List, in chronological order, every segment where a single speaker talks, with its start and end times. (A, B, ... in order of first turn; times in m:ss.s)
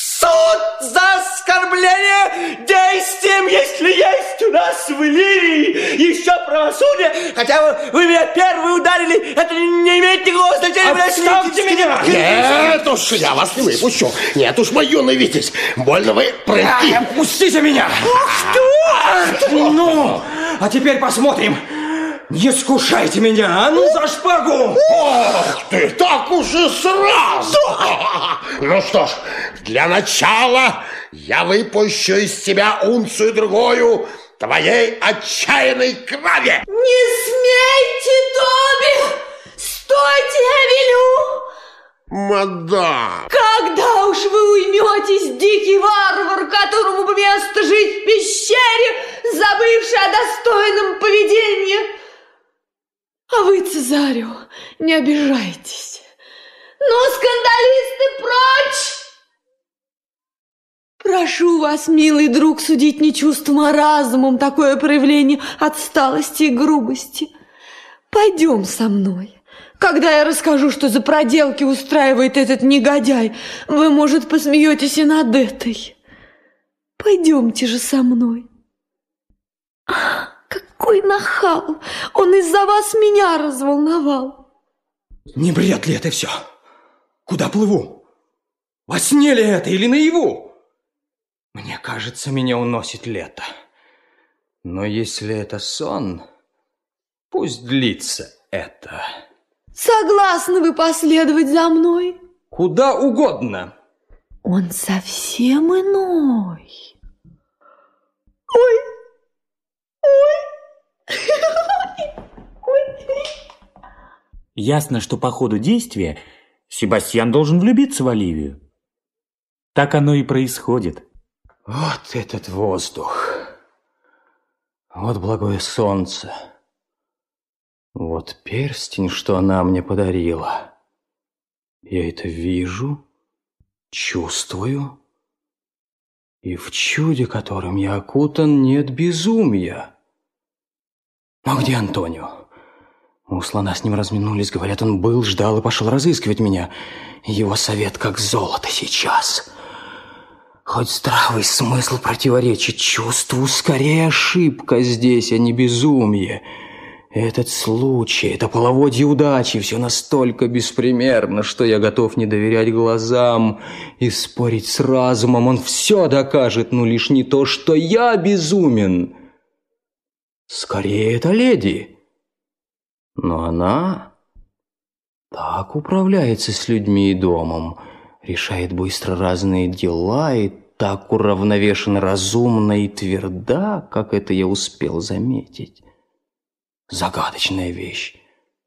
0:00.2-0:01.1 A
0:02.7-0:07.3 A
0:07.4-0:07.9 B
0:08.1-0:12.4 A
0:10.7-0:12.1 B
0:12.0-0:17.1 C
0:16.7-0:21.6 B
0:22.3-0:24.8 B
0:24.8-0:36.6 C
0:36.7-0:41.4 D
0:42.1-0:43.3 C
0:43.3-0:51.9 D
0:53.3-0:56.0 D
0:56.8-0:59.0 D
1:01.0-1:07.3 D
1:08.1-1:16.0 D
1:17.0-1:18.5 D
1:19.9-1:24.4 D
1:25.3-1:26.4 B
1:27.2-1:28.0 B
1:28.9-1:30.5 B
1:31.5-1:33.5 B
1:34.6-1:36.2 B
1:37.3-1:39.1 B
1:39.7-1:42.2 D
1:42.5-1:43.7 B
1:44.4-1:46.7 D
1:48.5-1:48.9 D
1:50.0-1:50.4 D
1:54.6-1:58.6 E
1:59.7-2:01.0 E
2:01.7-2:03.5 B
2:04.9-2:06.3 B
2:08.0-2:10.7 B
2:11.8-2:13.0 B
2:13.9-2:15.0 B
2:16.4-2:19.9 B
2:21.4-2:22.4 B
2:23.3-2:26.7 B
2:27.2-2:29.5 B
2:30.6-2:36.4 B
2:37.1-2:49.2 B
2:50.5-2:51.9 B
2:53.2-2:54.1 B
2:55.3-3:05.8 B
3:06.9-3:08.2 B